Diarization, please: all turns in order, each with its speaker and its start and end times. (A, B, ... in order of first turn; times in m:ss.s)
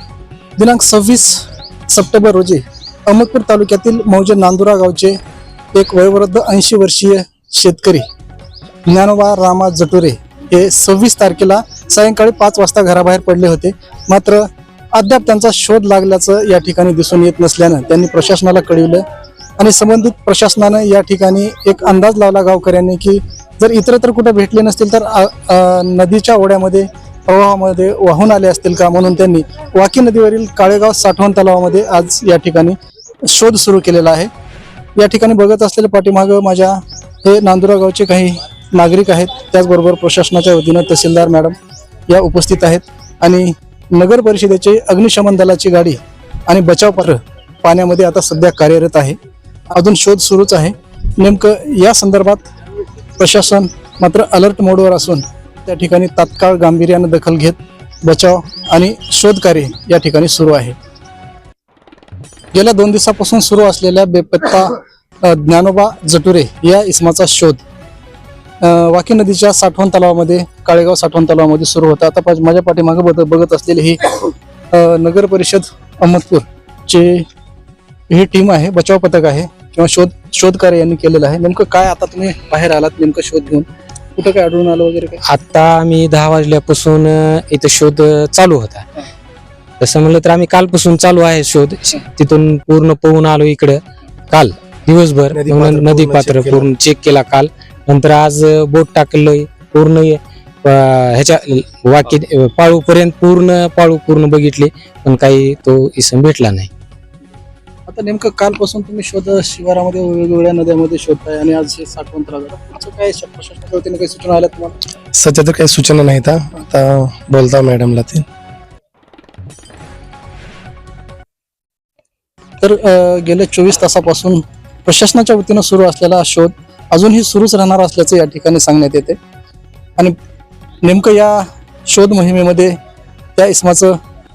0:00.6-0:05.2 A
0:05.7-0:08.0 A
0:08.9-0:19.0 A
0:19.6-0:34.3 A
0:35.0-0:41.6 A
0:42.1-0:49.2 A
0:49.7-0:52.4 A
0:53.2-1:00.8 A
1:02.5-1:07.6 A
1:08.6-1:17.2 A
1:18.1-1:25.2 A
1:25.3-1:28.9 B
1:29.8-1:46.7 B
1:35.3-1:36.7 C
1:47.9-1:54.8 A
1:55.1-1:58.2 C
2:02.6-2:09.2 A
2:10.8-2:12.8 A
2:13.4-2:14.0 A